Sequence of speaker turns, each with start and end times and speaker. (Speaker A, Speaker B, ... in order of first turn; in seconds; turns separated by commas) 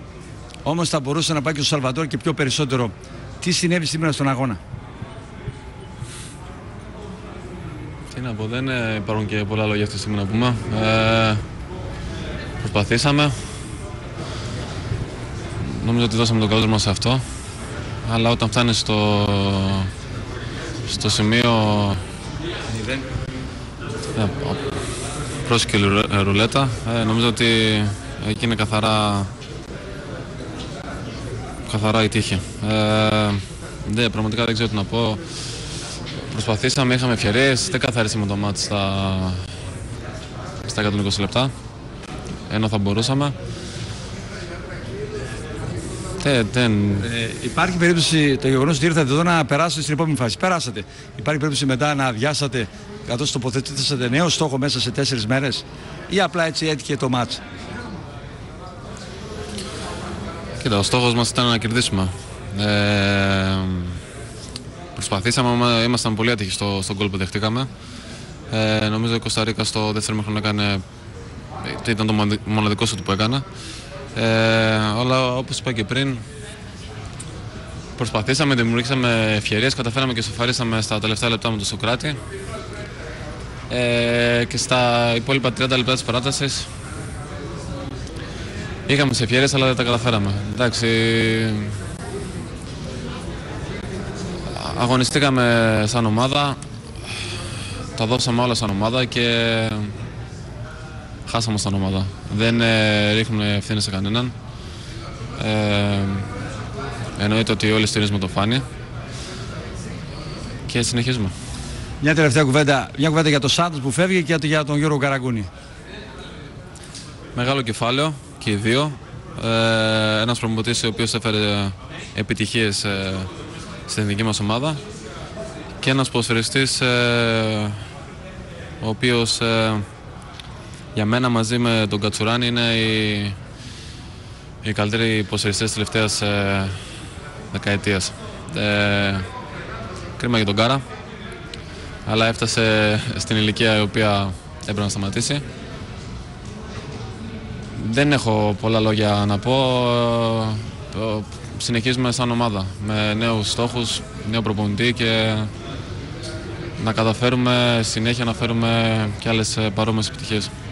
Speaker A: 0.6-4.6, Speaker B: 8.1-11.4, Speaker B: 12.6-13.4, Speaker B: 15.6-17.2, Speaker B: 18.0-19.9, Speaker B: 20.8-22.0, Speaker A: 22.7-23.1, Speaker B: 24.1-24.7, Speaker B: 25.4-29.3, Speaker B: 31.6-35.2, Speaker B: 36.3-39.5, Speaker B: 40.6-41.5, Speaker B: 42.5-43.3, Speaker B: 46.2-47.1, Speaker A: 47.0-57.4, Speaker B: 60.6-64.0, Speaker B: 65.0-67.7, Speaker B: 68.5-70.8, Speaker B: 71.6-73.4, Speaker B: 74.1-76.2, Speaker B: 78.0-82.2, Speaker B: 83.7-86.7, Speaker B: 88.9-91.7, Speaker B: 94.5-96.6, Speaker B: 97.9-99.9, Speaker B: 101.2-104.3, Speaker B: 105.4-106.3, Speaker B: 107.2-108.6, Speaker B: 110.7-111.3, Speaker A: 112.0-115.5, Speaker B: 117.3-123.3, Speaker B: 123.9-124.8, Speaker B: 125.8-127.8, Speaker B: 128.8-129.8, Speaker B: 130.9-133.3, Speaker B: 134.6-136.8, Speaker B: 137.5-139.3, Speaker B: 140.2-140.8, Speaker B: 142.0-145.4, Speaker B: 147.8-155.5, Speaker B: 156.8-160.5